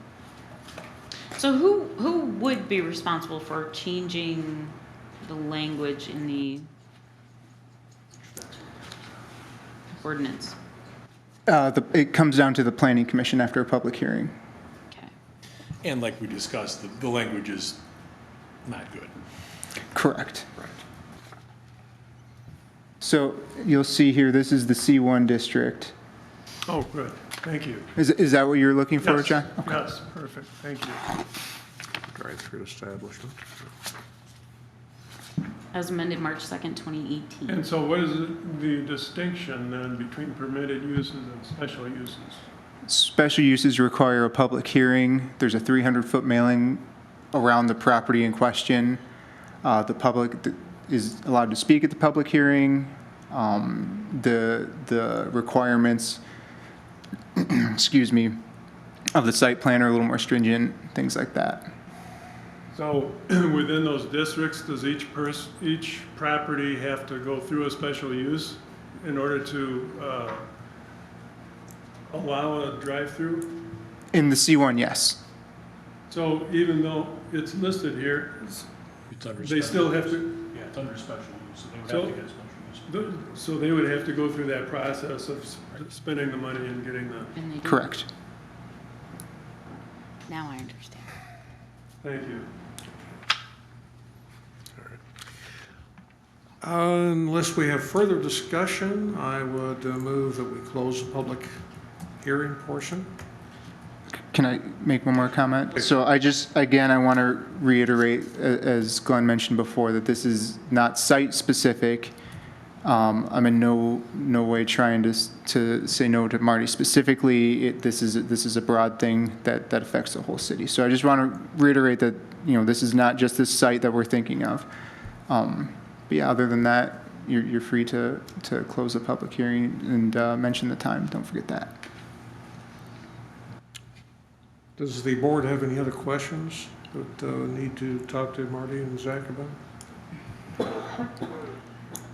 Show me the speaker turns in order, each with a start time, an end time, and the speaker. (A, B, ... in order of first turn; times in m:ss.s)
0:01.4-0:06.7 A
0:10.0-0:10.6 A
0:11.5-0:14.3 B
0:15.8-0:17.8 C
0:18.6-0:19.1 C
0:19.9-0:20.5 B
0:23.0-0:25.9 B
0:26.7-0:27.9 D
0:28.0-0:29.8 B
0:29.0-0:31.0 D
0:32.1-0:33.4 E
0:35.7-0:37.6 A
0:37.5-0:42.4 D
0:42.9-0:49.0 B
0:49.6-0:56.2 B
0:57.4-0:58.4 B
0:59.1-1:01.7 B
1:02.7-1:10.4 D
1:12.1-1:13.6 D
1:14.1-1:15.2 B
1:16.1-1:18.7 D
1:19.1-1:23.2 C
1:19.4-1:20.4 D
1:21.9-1:22.2 D
1:22.9-1:27.3 D
1:27.3-1:28.0 A
1:27.6-1:28.1 B
1:30.3-1:31.1 A
1:32.0-1:32.5 D
1:36.6-1:41.6 E
1:42.2-1:43.1 E
1:44.3-1:52.2 B
1:52.8-2:04.7 B
2:05.3-2:11.8 B
2:14.8-2:19.6 E